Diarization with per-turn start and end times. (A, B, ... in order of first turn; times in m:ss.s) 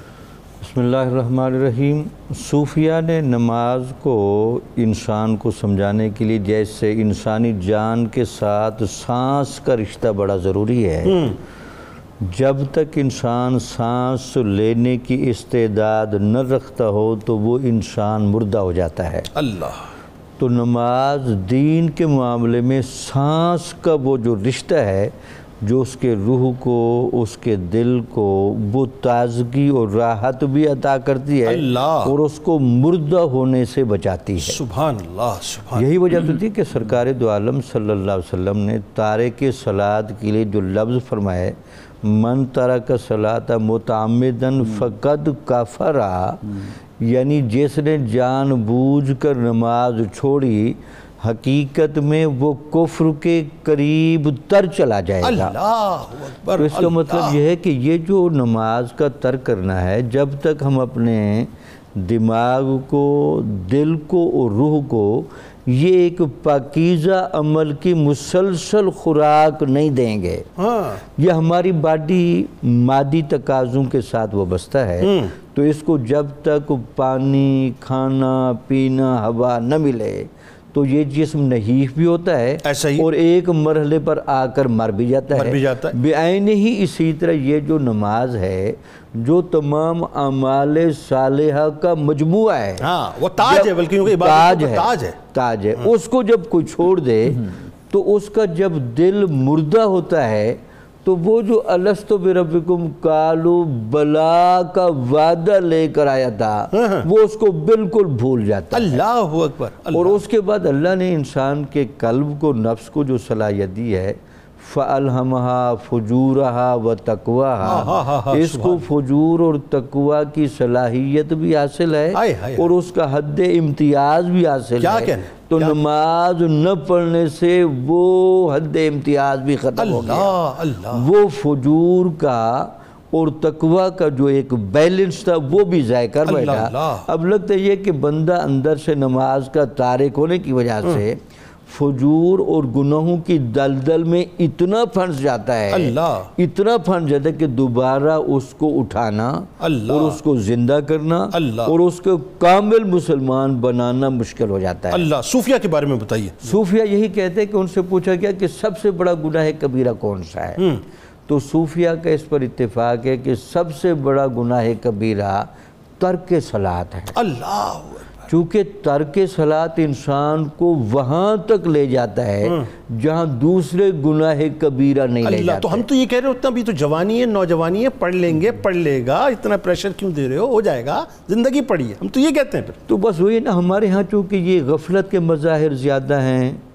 0:00.6-0:11.4 A
0:12.2-0:19.3 A
0:19.3-0:19.9 B
0:20.4-0:34.6 A
0:31.4-0:32.2 B
0:34.4-0:35.9 B
0:35.7-0:55.5 A
0:55.2-0:57.4 B
0:56.6-1:10.4 A
1:10.6-1:11.0 B
1:11.0-1:49.0 A
1:15.0-1:15.3 B
1:22.6-1:23.1 B
1:25.3-1:26.0 B
1:32.8-1:35.2 B
1:46.7-1:47.1 B
1:48.7-1:50.2 B
1:49.9-2:10.3 A
1:57.6-1:58.8 B
2:02.1-2:02.7 B
2:04.8-2:05.8 B
2:09.8-2:11.1 B
2:10.9-2:35.1 A
2:16.2-2:17.1 B
2:25.7-2:26.3 B
2:29.6-2:30.2 B
2:31.3-2:31.7 B
2:34.9-2:36.6 B
2:36.4-2:40.6 A
2:41.3-2:47.2 A
2:47.1-2:48.3 B
2:48.3-2:55.8 A
2:55.2-3:02.8 B
3:02.9-3:06.6 A